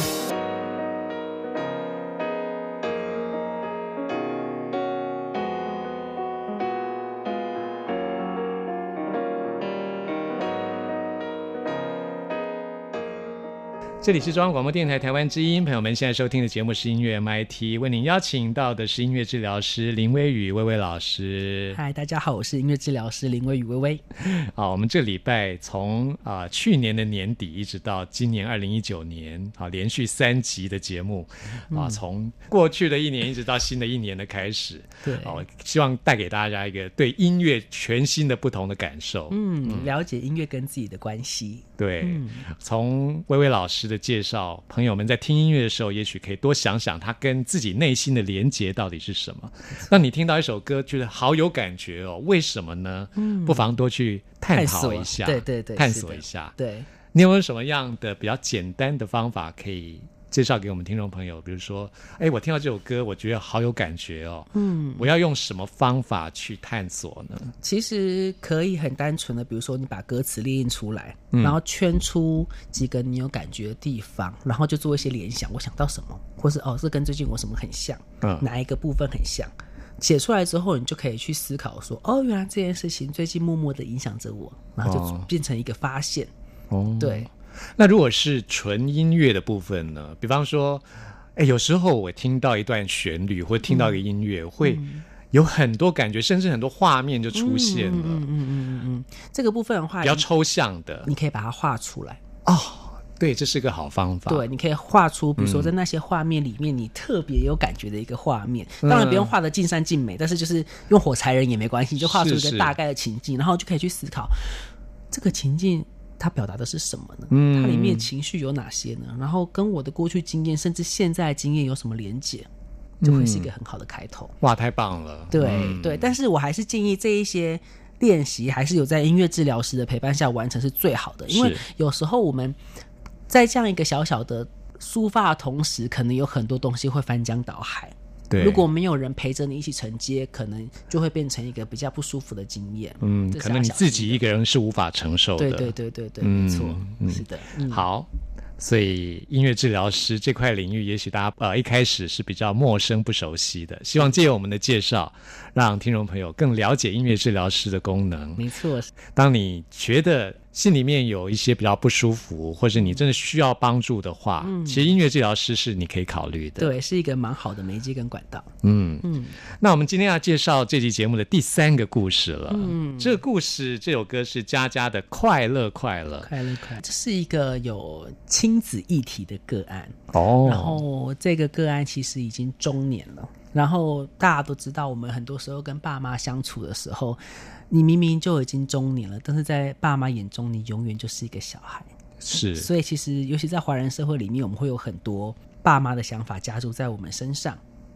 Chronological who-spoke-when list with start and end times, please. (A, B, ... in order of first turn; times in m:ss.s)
0:14.0-0:21.8 A
0:21.7-0:24.0 B
0:24.2-0:39.9 A
0:31.7-0:32.0 B
0:35.0-0:35.4 B
0:39.3-0:42.4 B
0:41.8-0:56.6 A
0:53.2-0:53.6 B
0:54.5-0:56.9 B
0:57.1-1:07.5 A
1:04.5-1:05.1 B
1:07.6-1:26.3 B
1:18.2-1:18.5 A
1:24.8-1:25.3 A
1:26.7-1:38.2 A
1:27.0-1:27.3 B
1:33.7-1:34.0 B
1:34.6-1:35.0 B
1:37.3-1:40.3 B
1:40.0-1:41.1 A
1:41.0-1:42.2 B
1:42.4-1:44.5 A
1:44.3-1:54.5 B
1:45.4-1:45.7 A
1:48.8-1:49.3 A
1:52.0-1:52.8 A
1:55.1-2:02.5 B
1:57.3-1:58.1 A
2:03.0-2:03.5 A
2:03.0-2:04.4 B
2:04.4-2:06.2 A
2:05.3-2:12.6 B
2:11.3-2:11.6 A
2:13.3-2:24.2 B
2:18.3-2:18.7 A
2:23.0-2:38.4 A
2:25.4-2:27.8 B
2:38.4-2:38.9 B
2:39.2-2:46.8 A
2:44.4-2:44.9 B
2:46.6-2:48.5 B
2:48.6-2:56.3 A
2:49.0-2:49.4 B
2:52.5-2:53.2 B
2:56.2-3:11.9 B
3:00.1-3:00.8 A
3:12.2-3:12.7 A
3:12.6-3:17.6 B